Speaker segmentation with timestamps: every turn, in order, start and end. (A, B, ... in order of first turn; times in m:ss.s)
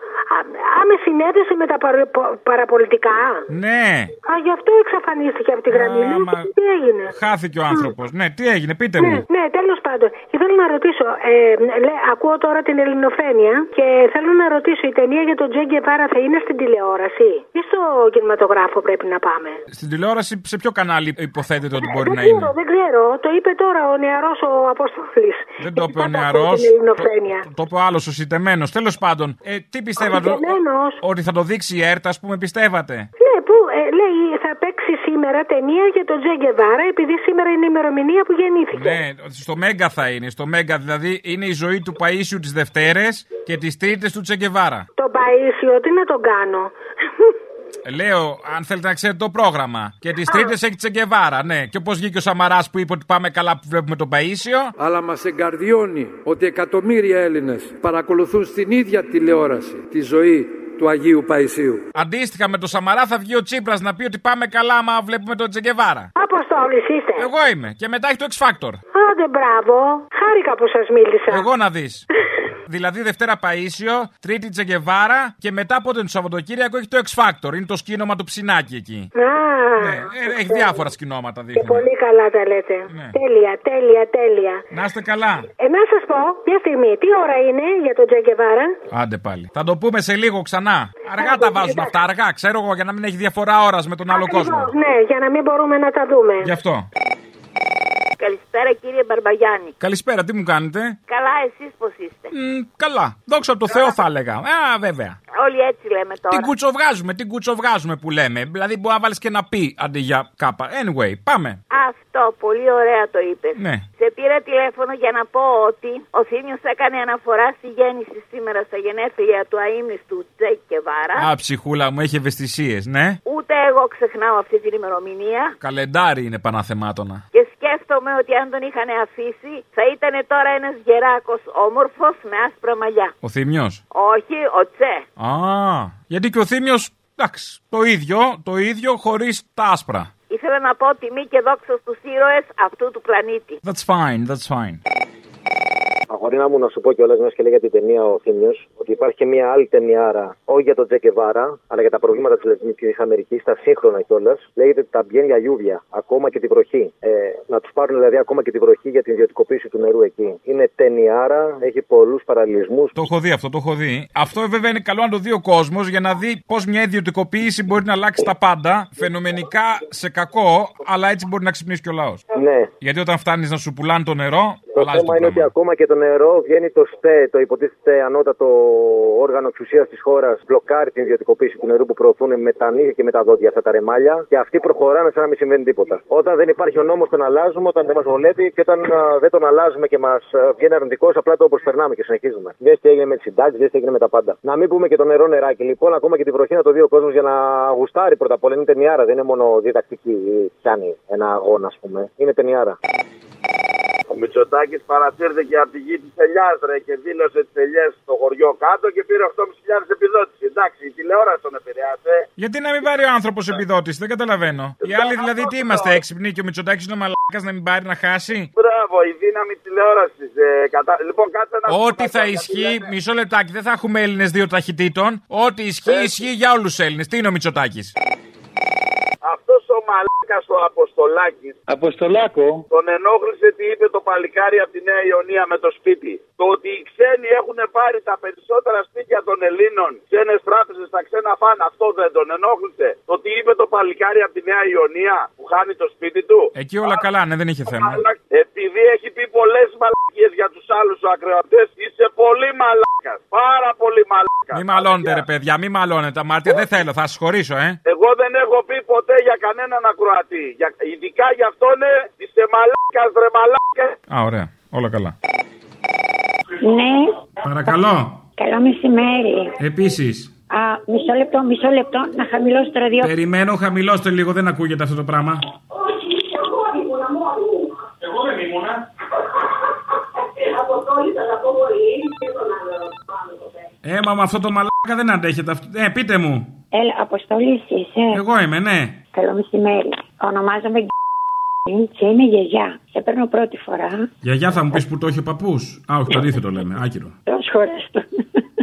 0:00.3-0:03.4 A
0:03.5-0:04.1 B
0:04.2-0:07.1 A
0:05.7-0:06.5 B
0:07.1-0:09.2 B
0:09.0-0:19.6 A
0:19.7-0:22.5 B
0:21.8-0:27.4 A
0:25.6-0:33.1 B
0:30.0-0:31.0 A
0:33.2-0:39.0 A
0:38.7-0:44.8 B
0:45.0-0:47.3 A
0:47.8-0:54.7 B
0:50.3-0:50.5 A
0:54.8-1:01.8 C
1:01.9-1:06.1 B
1:06.2-1:07.3 A
1:07.2-1:08.8 B
1:08.9-1:11.4 A
1:11.3-1:12.1 B
1:12.7-1:19.1 B
1:19.2-1:20.7 A
1:19.8-1:21.9 B
1:21.5-1:24.6 A
1:22.9-1:23.1 B
1:24.7-1:25.4 B
1:25.6-1:28.7 A
1:28.9-1:34.7 B
1:31.2-1:31.9 A
1:34.1-1:36.5 A
1:36.4-1:36.9 B
1:38.2-1:39.7 D
1:39.8-1:41.0 B
1:41.1-1:42.3 D
1:42.3-1:45.2 B
1:45.3-1:46.5 D
1:46.3-1:51.6 B
1:51.7-2:01.3 D
1:53.6-1:53.8 B
2:01.2-2:03.2 B
2:03.2-2:05.5 D
2:05.6-2:07.2 B
2:07.3-2:13.1 D
2:13.2-2:13.8 B
2:13.9-2:15.0 D
2:15.2-2:20.1 B
2:20.3-2:23.6 D
2:23.6-2:24.8 B
2:26.1-2:42.9 E
2:42.9-2:52.2 B
2:52.3-2:52.7 E
2:52.8-2:55.5 B
2:54.8-3:22.8 E
3:24.1-3:32.2 F
3:32.4-3:38.5 B
3:34.8-3:35.8 F
3:38.6-3:42.8 F
3:41.7-3:47.9 B
3:49.2-3:51.6 F
3:52.7-4:06.9 F
4:06.5-4:08.0 B
4:07.7-4:15.2 F
4:14.5-4:17.8 B
4:17.8-4:23.9 F
4:24.1-4:25.1 B
4:26.6-4:27.8 G
4:27.4-4:28.2 B
4:28.4-4:29.5 G
4:29.6-4:30.3 B
4:30.5-4:33.1 G
4:33.0-4:35.4 B
4:43.8-4:46.5 B
4:46.7-4:48.2 G
4:48.1-4:49.0 B
4:49.1-4:50.9 G
4:51.7-4:54.1 G
4:54.2-4:57.1 B
4:57.3-4:58.0 G